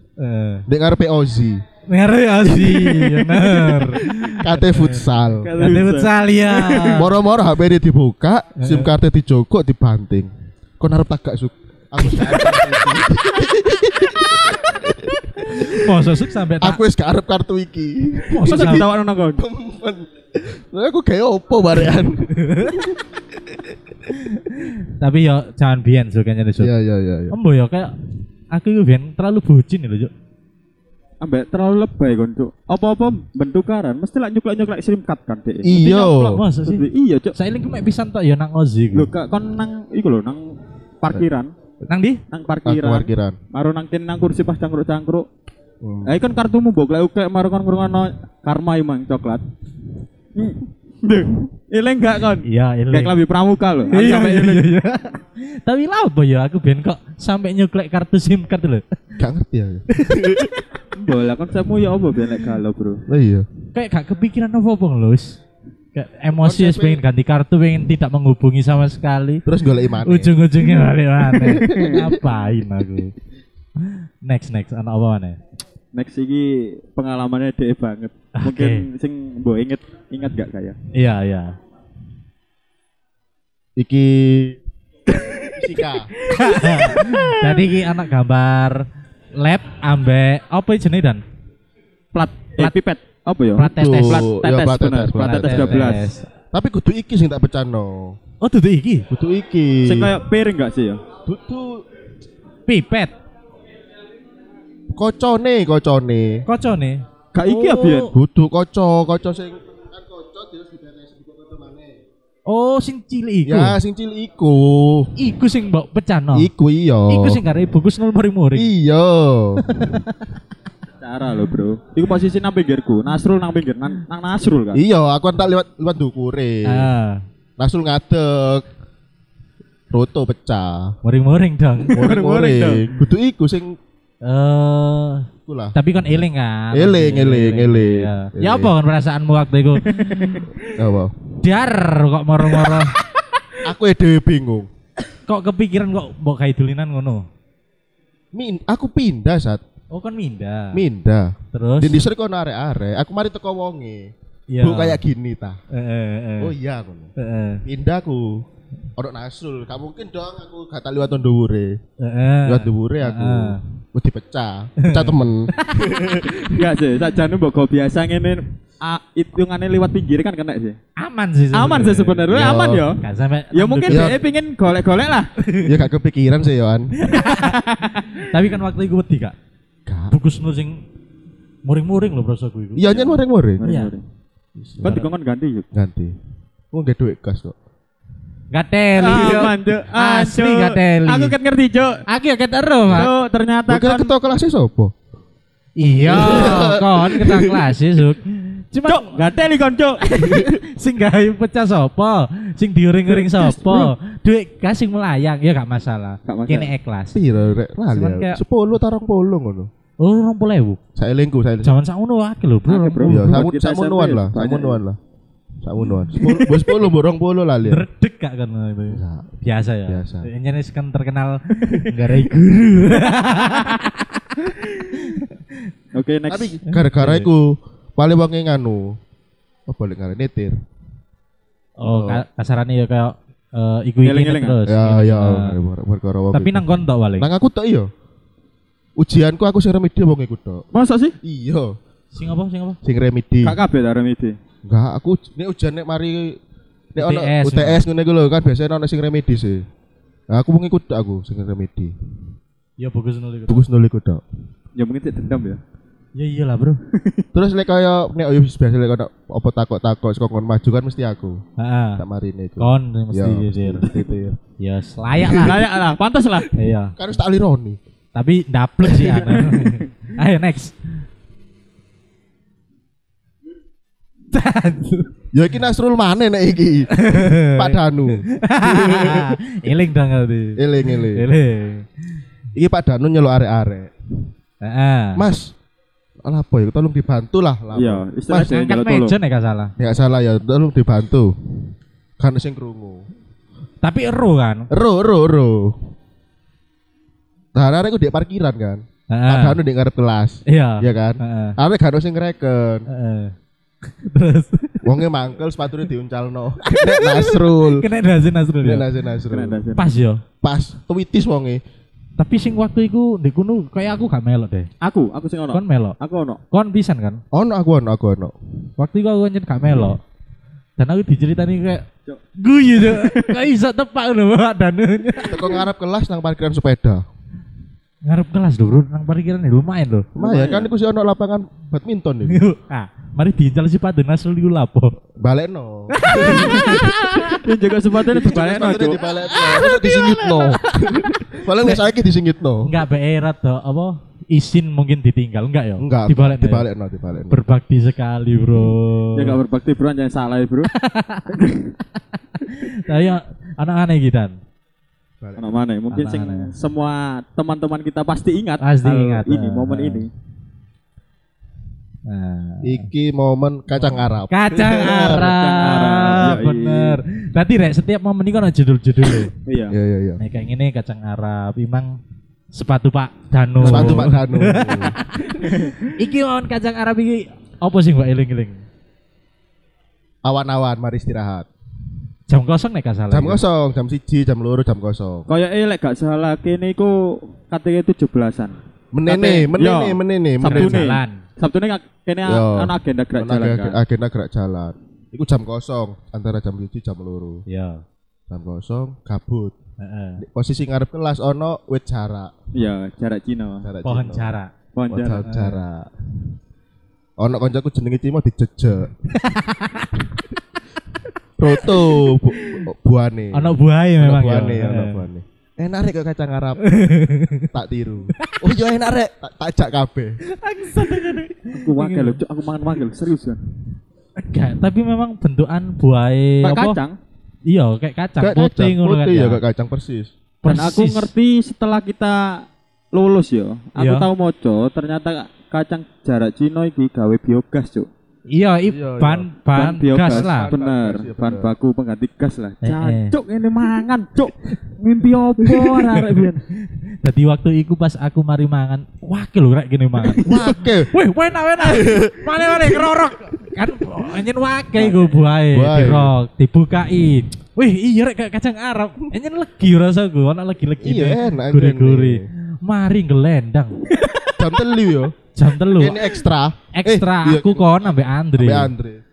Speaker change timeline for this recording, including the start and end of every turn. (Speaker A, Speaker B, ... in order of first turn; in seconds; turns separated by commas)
Speaker A: 0.2-0.6, Speaker B: 0.7-1.6, Speaker A: 1.9-7.1, Speaker C: 2.6-3.5, Speaker B: 4.3-5.5, Speaker C: 5.4-7.1, Speaker B: 6.9-15.9, Speaker A: 8.6-8.9, Speaker A: 15.5-16.8, Speaker B: 16.6-23.6, Speaker A: 18.3-18.9, Speaker C: 18.4-19.4, Speaker A: 22.4-22.8, Speaker A: 24.1-26.7, Speaker B: 26.6-27.3, Speaker A: 27.3-27.9, Speaker A: 28.5-30.1, Speaker C: 31.2-37.3, Speaker B: 35.6-36.4, Speaker A: 36.3-39.1, Speaker C: 38.9-41.5, Speaker A: 41.9-42.2, Speaker C: 42.3-45.3, Speaker B: 42.6-43.4, Speaker B: 45.8-46.1, Speaker C: 46.0-49.4, Speaker C: 50.3-54.7, Speaker A: 52.4-53.2, Speaker A: 53.9-58.8, Speaker B: 59.2-60.5, Speaker A: 59.9-60.5, Speaker C: 61.0-63.0, Speaker B: 63.1-63.5, Speaker A: 63.7-65.4, Speaker A: 65.9-69.4, Speaker B: 66.4-67.0, Speaker B: 69.5-70.4, Speaker A: 70.0-73.1, Speaker B: 71.4-72.2, Speaker C: 71.4-72.0, Speaker A: 73.8-75.4, Speaker C: 75.9-80.8, Speaker A: 78.3-78.8, Speaker A: 80.9-81.5, Speaker B: 83.8-84.6, Speaker B: 85.5-86.1, Speaker A: 86.2-88.8, Speaker C: 86.8-87.6, Speaker A: 89.4-91.2, Speaker C: 92.1-96.1, Speaker A: 93.6-94.2, Speaker B: 93.7-95.9, Speaker A: 95.2-96.2, Speaker B: 96.5-98.2, Speaker A: 98.4-99.1, Speaker B: 99.1-100.1, Speaker C: 99.8-101.0, Speaker B: 101.2-101.8, Speaker A: 102.7-103.1, Speaker B: 104.9-106.4, Speaker A: 106.5-108.1, Speaker C: 107.3-108.1, Speaker B: 108.1-112.0, Speaker A: 112.5-113.8, Speaker B: 113.4-115.1, Speaker A: 115.2-116.5, Speaker B: 116.3-117.4, Speaker A: 117.1-118.7, Speaker B: 118.5-119.6, Speaker A: 119.6-120.3, Speaker C: 121.0-124.8, Speaker B: 124.7-126.9, Speaker A: 126.6-127.2, Speaker B: 127.6-128.7, Speaker B: 129.9-130.9, Speaker A: 131.0-132.0, Speaker C: 131.9-132.9, Speaker B: 131.9-133.8, Speaker A: 134.2-140.4, Speaker B: 135.5-135.7, Speaker B: 136.7-138.7, Speaker C: 139.8-140.5, Speaker B: 140.7-141.1, Speaker A: 141.4-142.9, Speaker B: 143.6-144.7, Speaker A: 145.3-147.2, Speaker B: 148.3-149.6, Speaker A: 149.9-150.8, Speaker B: 150.7-155.6, Speaker A: 151.5-152.0, Speaker A: 154.5-155.0, Speaker A: 155.7-156.5, Speaker B: 156.4-157.1, Speaker A: 157.2-157.6, Speaker B: 157.6-158.4, Speaker B: 159.0-161.8, Speaker A: 162.0-163.6, Speaker B: 162.4-166.7, Speaker A: 164.8-166.2, Speaker C: 166.5-170.8, Speaker A: 171.0-172.5, Speaker C: 171.5-173.0, Speaker B: 172.3-172.8, Speaker A: 173.0-174.2, Speaker C: 173.5-175.3, Speaker B: 173.9-174.2, Speaker A: 175.4-175.7, Speaker B: 175.6-177.0, Speaker A: 176.9-177.6, Speaker C: 177.2-178.1, Speaker A: 178.2-179.3, Speaker B: 179.8-180.1, Speaker A: 180.1-180.8, Speaker A: 181.6-183.9, Speaker B: 182.8-183.6, Speaker C: 183.6-184.0, Speaker A: 184.8-185.1, Speaker C: 184.8-185.7, Speaker B: 185.7-186.1, Speaker B: 186.7-187.5, Speaker A: 188.5-191.3, Speaker C: 189.0-192.0, Speaker A: 192.1-193.1, Speaker C: 192.9-194.1, Speaker B: 193.7-194.9, Speaker A: 195.8-199.2, Speaker B: 196.0-197.8, Speaker C: 198.9-200.0, Speaker A: 200.0-207.2, Speaker B: 200.1-200.6, Speaker C: 203.1-203.9, Speaker C: 206.3-206.7, Speaker B: 207.1-209.7, Speaker A: 207.9-208.4, Speaker A: 210.0-210.8, Speaker B: 210.9-211.8, Speaker A: 211.6-213.4, Speaker C: 212.7-214.8, Speaker B: 213.0-215.0, Speaker B: 215.6-217.8, Speaker A: 216.1-216.8, Speaker A: 217.7-225.4, Speaker B: 218.9-219.3, Speaker B: 219.9-220.3, Speaker C: 225.9-226.6, Speaker B: 226.3-229.0, Speaker A: 226.7-227.3, Speaker B: 229.7-230.5, Speaker A: 231.8-235.6, Speaker B: 231.9-232.2, Speaker C: 234.0-234.6, Speaker B: 234.7-236.6, Speaker A: 236.3-237.3, Speaker B: 237.2-237.9, Speaker B: 239.0-240.6, Speaker C: 240.7-241.2, Speaker B: 241.2-241.7, Speaker A: 242.1-242.8, Speaker B: 242.8-243.6, Speaker C: 243.4-244.4, Speaker B: 244.7-246.4, Speaker B: 246.9-249.6, Speaker A: 247.0-247.8, Speaker B: 250.3-251.9, Speaker A: 252.8-253.7, Speaker B: 253.5-254.2, Speaker C: 254.8-255.6, Speaker A: 256.1-256.8, Speaker C: 256.9-257.2, Speaker B: 257.3-261.4, Speaker A: 261.6-262.0, Speaker B: 262.0-264.4, Speaker A: 262.6-263.9, Speaker A: 264.6-265.6, Speaker B: 265.2-265.5, Speaker C: 265.4-266.5, Speaker A: 266.5-266.9, Speaker B: 266.9-267.8, Speaker A: 268.1-270.9, Speaker C: 268.9-269.8, Speaker A: 274.3-275.1, Speaker B: 275.3-279.4, Speaker A: 276.9-282.0, Speaker B: 280.6-281.2, Speaker B: 282.5-283.9, Speaker A: 284.6-285.2, Speaker B: 285.1-285.5, Speaker B: 286.2-288.5, Speaker C: 287.7-289.1, Speaker A: 288.3-289.7, Speaker B: 289.8-291.3, Speaker B: 292.2-293.1, Speaker A: 293.8-294.7, Speaker B: 294.7-295.8, Speaker B: 297.5-302.9, Speaker A: 299.1-299.6, Speaker A: 300.5-301.6, Speaker A: 302.9-303.3, Speaker A: 303.9-304.9, Speaker B: 304.8-307.9, Speaker A: 306.7-308.9, Speaker B: 308.6-309.6, Speaker C: 309.3-309.9, Speaker A: 309.8-310.2, Speaker B: 310.4-311.6, Speaker A: 312.2-314.7, Speaker C: 314.8-316.4, Speaker A: 315.5-316.0, Speaker A: 316.5-317.2, Speaker B: 317.3-318.3, Speaker A: 318.8-320.0, Speaker A: 320.8-321.9, Speaker A: 322.4-325.6, Speaker C: 322.8-323.4, Speaker B: 325.2-327.0, Speaker A: 328.0-330.1, Speaker B: 330.1-332.4, Speaker C: 330.2-330.7, Speaker A: 332.3-334.9, Speaker B: 335.2-337.1, Speaker A: 335.9-337.4, Speaker C: 336.4-339.0, Speaker B: 338.1-342.7, Speaker A: 339.0-341.1, Speaker A: 342.6-346.6, Speaker B: 345.8-347.4, Speaker A: 347.3-349.4, Speaker C: 349.1-350.7, Speaker A: 350.7-351.4, Speaker C: 351.3-351.7, Speaker A: 352.4-354.3, Speaker B: 355.2-355.5, Speaker C: 355.4-360.1, Speaker A: 355.9-356.5, Speaker A: 358.6-360.0, Speaker A: 362.1-362.9, Speaker B: 362.6-365.3, Speaker A: 364.3-369.3, Speaker C: 364.7-367.0, Speaker C: 369.4-369.7, Speaker B: 369.7-370.2, Speaker A: 370.2-372.0, Speaker A: 372.5-378.6, Speaker B: 373.6-375.0, Speaker C: 373.7-374.0, Speaker C: 375.4-375.9, Speaker B: 380.2-381.5, Speaker A: 382.3-383.4, Speaker B: 383.1-385.3, Speaker C: 385.3-393.8, Speaker B: 388.9-390.9, Speaker A: 390.4-391.2, Speaker B: 392.2-397.4, Speaker A: 397.5-397.8, Speaker B: 398.3-399.5, Speaker A: 399.8-400.2, Speaker B: 400.2-402.3, Speaker C: 402.5-403.7, Speaker B: 403.6-404.3, Speaker A: 403.8-404.5, Speaker C: 404.7-405.2, Speaker B: 404.9-405.9, Speaker A: 405.2-405.6, Speaker B: 407.2-408.9, Speaker A: 409.1-410.0, Speaker B: 411.4-416.6, Speaker A: 411.5-412.6, Speaker A: 413.3-415.0, Speaker A: 416.6-417.5, Speaker B: 417.5-420.2, Speaker A: 418.1-418.4, Speaker A: 420.2-422.2, Speaker C: 421.5-423.4, Speaker A: 424.2-426.8, Speaker C: 426.4-427.0, Speaker A: 427.4-429.4, Speaker B: 428.2-430.1, Speaker A: 430.4-431.1, Speaker C: 430.4-437.9, Speaker A: 433.8-434.1, Speaker A: 438.3-440.5, Speaker B: 438.7-439.3, Speaker C: 439.5-446.4, Speaker B: 440.0-441.5, Speaker A: 442.6-443.1, Speaker B: 445.4-445.8, Speaker A: 447.0-463.9, Speaker B: 450.2-450.9, Speaker B: 451.6-452.9, Speaker C: 454.8-455.2, Speaker B: 455.5-456.1, Speaker B: 460.8-462.2, Speaker B: 464.4-465.1, Speaker A: 465.3-466.1, Speaker B: 465.7-469.0, Speaker A: 466.7-468.7